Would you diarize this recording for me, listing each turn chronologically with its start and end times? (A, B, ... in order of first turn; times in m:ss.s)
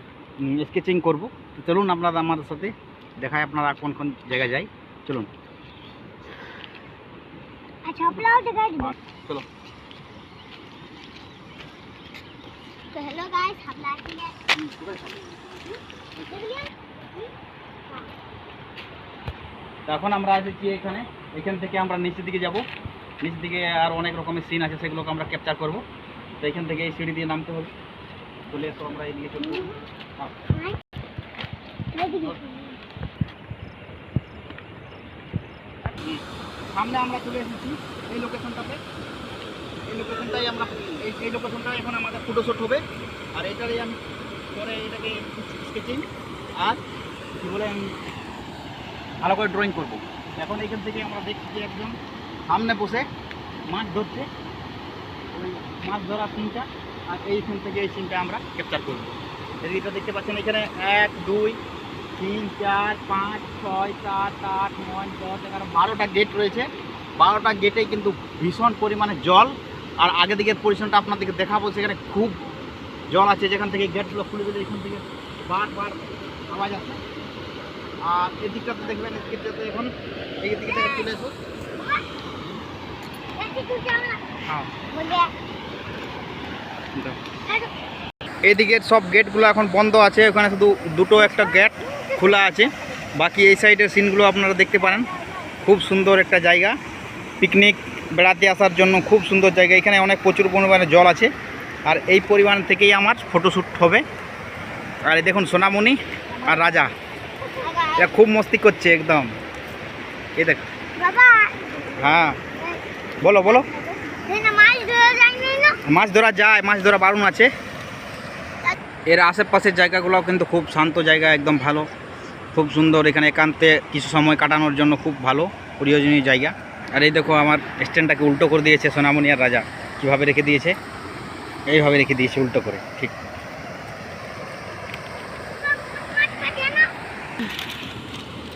0:00.4-0:05.3 A
0:07.9-0:08.9 B
0:08.8-0:09.5 A
0:12.9-0:14.4 B
0:14.6-0:15.2 A
0:15.3-0:17.3 B
0:19.9-0:22.6 A
0:23.2-0:25.8 A
0:26.4-0:27.7 A
0:28.5-0:30.4 A
0:29.4-0:29.7 B
0:31.9-0:32.8 B
0:36.7-0:38.8 A
0:39.9-0:42.8 A
0:43.4-0:44.0 A
0:44.5-0:46.0 A
0:47.4-0:48.0 A
0:49.2-0:52.0 A
0:52.5-0:53.1 A
0:53.7-0:54.3 A
0:55.3-1:01.6 A
1:02.2-1:06.7 A
1:07.2-1:12.4 A
1:13.1-1:17.0 A
1:18.0-1:21.3 A
1:20.7-1:21.1 B
1:21.8-1:22.0 B
1:23.4-1:24.2 B
1:24.9-1:25.3 B
1:28.4-1:35.1 A
1:31.2-1:33.0 B
1:34.8-1:35.5 B
1:35.6-1:36.8 A
1:37.4-1:41.3 A
1:41.8-1:44.0 A
1:45.1-1:46.9 A
1:46.3-1:46.9 B
1:47.4-1:48.1 B
1:48.0-1:49.3 A
1:50.4-1:50.6 A
1:51.0-1:52.8 B
1:52.0-1:52.4 A
1:53.2-1:53.7 A
1:53.3-1:55.8 B
1:55.8-1:57.5 A
1:59.1-2:01.9 A
2:02.5-2:10.8 A
2:11.7-2:13.2 A
2:15.6-2:16.9 B